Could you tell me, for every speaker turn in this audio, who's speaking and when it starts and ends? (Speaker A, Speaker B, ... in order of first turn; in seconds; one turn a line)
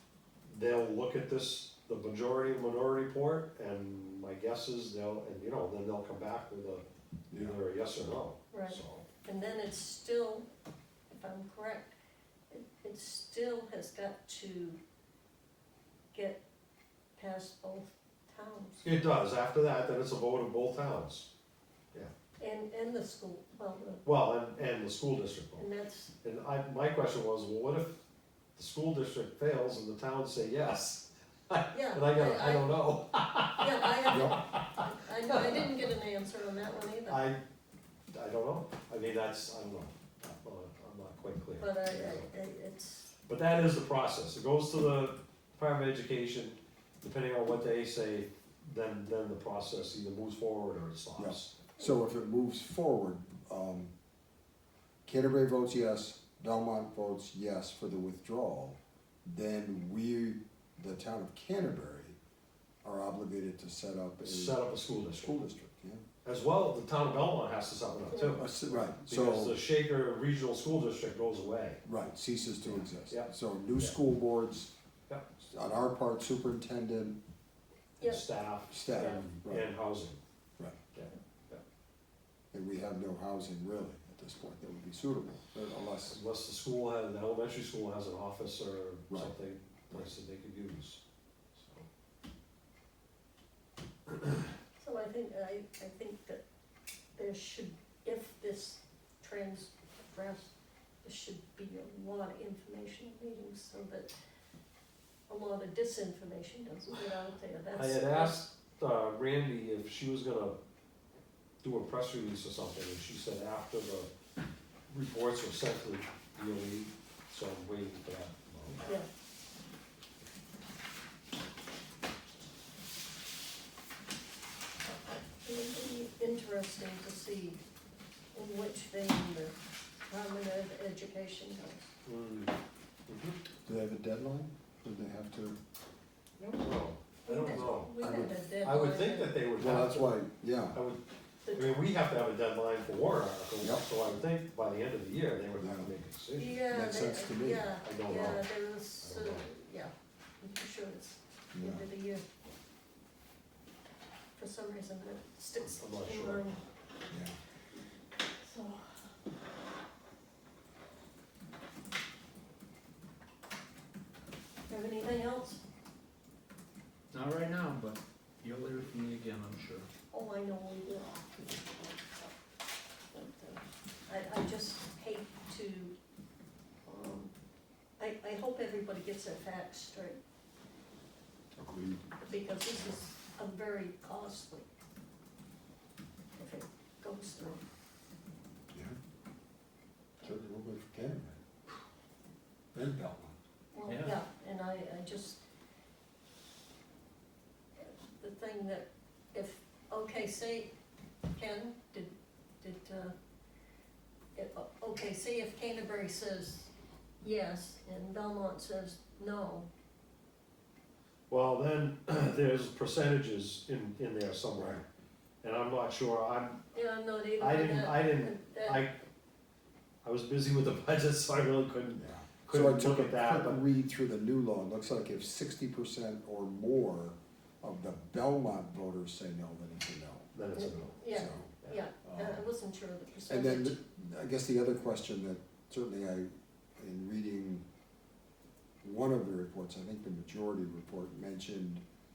Speaker A: 0.4-6.8
Speaker B: 7.3-7.5
Speaker A: 7.3-9.1
Speaker C: 8.5-10.4
Speaker C: 11.1-11.9
Speaker C: 12.5-14.8
Speaker C: 16.1-16.4
Speaker C: 17.1-19.1
Speaker A: 18.8-21.3
Speaker C: 22.4-24.0
Speaker A: 24.0-25.6
Speaker C: 25.6-26.1
Speaker A: 26.2-28.0
Speaker A: 28.6-35.7
Speaker C: 31.7-32.8
Speaker C: 33.6-37.3
Speaker B: 34.1-34.4
Speaker A: 37.1-37.4
Speaker A: 38.1-42.3
Speaker C: 41.6-43.1
Speaker A: 43.2-51.5
Speaker B: 51.2-53.9
Speaker B: 55.0-62.2
Speaker B: 62.8-64.6
Speaker A: 64.2-65.4
Speaker B: 65.1-66.0
Speaker A: 66.2-71.8
Speaker C: 68.1-68.4
Speaker B: 68.3-69.6
Speaker B: 71.8-74.7
Speaker A: 72.6-73.9
Speaker B: 75.4-77.2
Speaker C: 78.0-78.2
Speaker A: 78.0-80.2
Speaker B: 78.7-79.7
Speaker C: 78.9-79.2
Speaker A: 80.9-81.6
Speaker B: 82.5-86.2
Speaker A: 86.1-91.0
Speaker A: 91.5-91.9
Speaker C: 94.8-96.4
Speaker C: 97.1-104.1
Speaker C: 105.3-108.4
Speaker A: 107.7-110.6
Speaker A: 111.6-114.1
Speaker A: 114.9-118.9
Speaker C: 125.4-127.6
Speaker C: 128.3-131.9
Speaker A: 132.0-132.5
Speaker A: 133.1-133.4
Speaker B: 133.6-135.6
Speaker A: 136.4-137.9
Speaker C: 137.2-139.4
Speaker B: 138.0-138.4
Speaker A: 138.6-140.2
Speaker B: 139.6-140.8
Speaker A: 140.7-146.6
Speaker B: 143.6-143.8
Speaker B: 145.6-145.9
Speaker C: 146.3-152.2
Speaker B: 146.7-147.7
Speaker A: 147.8-148.4
Speaker A: 149.0-149.4
Speaker B: 151.5-151.8
Speaker C: 154.3-156.6
Speaker A: 155.6-156.5
Speaker B: 157.1-157.4
Speaker C: 158.4-159.1
Speaker C: 164.7-165.6
Speaker D: 167.1-169.9
Speaker C: 170.1-171.4
Speaker C: 173.1-175.9
Speaker C: 176.8-177.3
Speaker C: 178.0-180.2
Speaker B: 181.6-182.1
Speaker C: 182.2-184.7
Speaker C: 186.3-187.6
Speaker B: 188.7-189.0
Speaker B: 190.2-191.4
Speaker B: 192.7-193.4
Speaker C: 193.7-195.4
Speaker D: 193.8-194.2
Speaker C: 197.8-200.7
Speaker C: 201.3-203.1
Speaker C: 204.3-209.7
Speaker A: 211.3-214.8
Speaker B: 214.6-214.8
Speaker A: 215.4-216.7
Speaker C: 216.7-218.9
Speaker A: 217.4-218.9
Speaker A: 220.0-223.6
Speaker B: 222.0-230.3
Speaker A: 230.3-231.0
Speaker C: 230.6-233.8
Speaker B: 231.1-231.5
Speaker B: 232.1-232.4
Speaker B: 233.3-237.6
Speaker B: 238.8-241.8